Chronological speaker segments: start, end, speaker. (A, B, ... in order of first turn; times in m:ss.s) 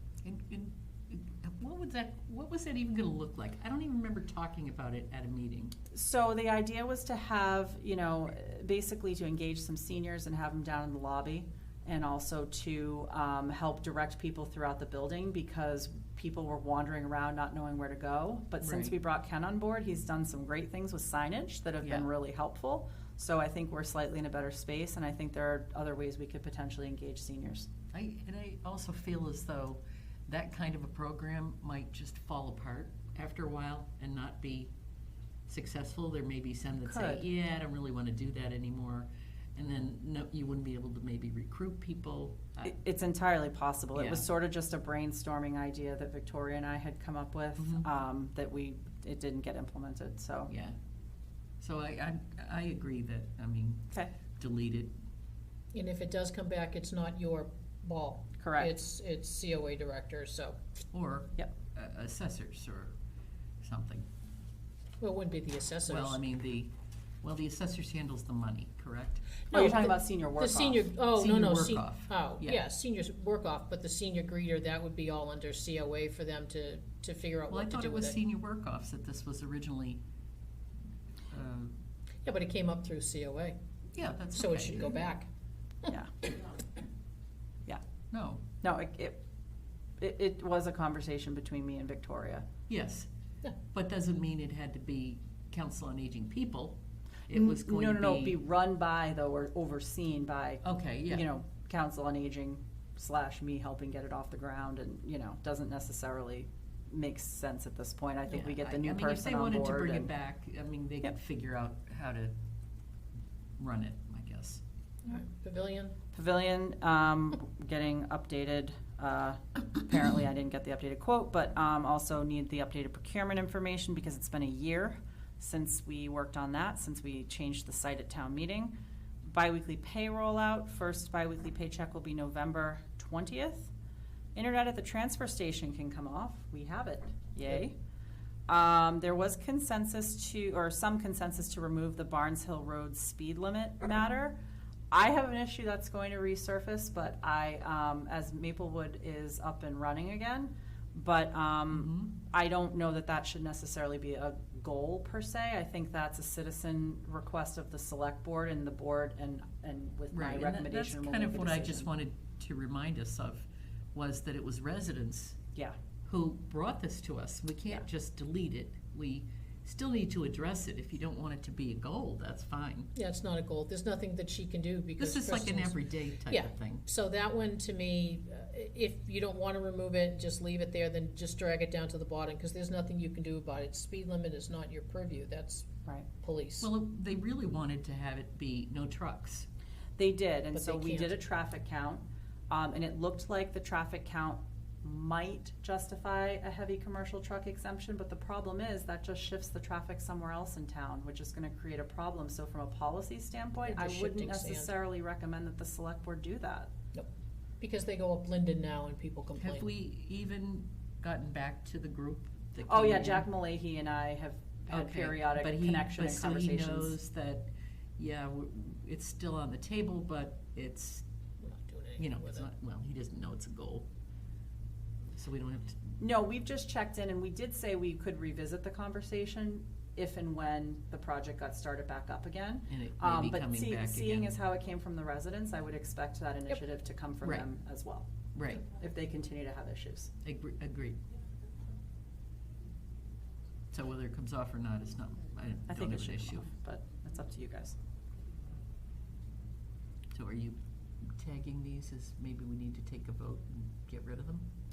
0:00.2-0:05.7 A
0:05.9-0:27.7 B
0:18.6-0:18.9 A
0:27.9-0:34.7 A
0:35.5-0:42.7 A
0:36.8-0:37.2 B
0:42.6-0:50.5 B
0:43.9-0:44.2 A
0:50.5-0:50.7 A
0:51.6-0:54.9 A
0:55.7-1:00.6 C
0:58.4-0:58.7 B
1:00.9-1:03.0 A
1:03.6-1:04.0 A
1:05.0-1:06.2 C
1:05.9-1:06.7 A
1:07.2-1:09.6 A
1:09.5-1:18.2 C
1:09.5-1:10.9 B
1:11.1-1:12.6 A
1:17.5-1:20.0 A
1:21.3-1:21.7 A
1:22.2-1:23.6 C
1:23.9-1:25.0 A
1:24.3-1:25.3 C
1:25.9-1:26.1 B
1:28.1-1:28.4 A
1:28.6-1:29.2 B
1:30.0-1:32.5 B
1:32.7-1:33.1 A
1:33.7-1:38.4 A
1:37.3-1:50.1 B
1:40.6-1:41.2 A
1:48.3-1:52.3 A
1:53.6-1:54.6 A
1:55.0-1:55.9 C
1:56.1-2:08.7 B
2:09.2-2:13.7 B
2:14.3-2:17.7 B
2:18.5-2:24.4 B
2:24.9-2:41.9 B
2:31.7-2:32.1 A
2:40.1-2:45.4 A
2:46.0-2:52.9 A
2:52.9-3:05.6 C
2:55.0-2:56.8 A
3:06.2-3:06.7 C
3:06.6-3:09.5 A
3:10.0-3:26.7 B
3:10.5-3:11.2 C
3:23.7-3:24.7 C
3:27.6-3:29.7 C
3:29.4-3:33.3 A
3:32.7-3:37.0 B
3:34.7-3:41.0 A
3:41.4-3:42.5 C
3:42.0-3:43.8 A
3:45.2-3:45.8 A
3:46.0-4:00.1 B
3:52.7-3:54.3 A
3:58.3-3:58.6 A
4:00.2-4:01.0 A
4:03.7-4:06.5 A
4:05.7-4:07.8 B
4:10.1-4:10.6 A
4:11.1-4:14.4 A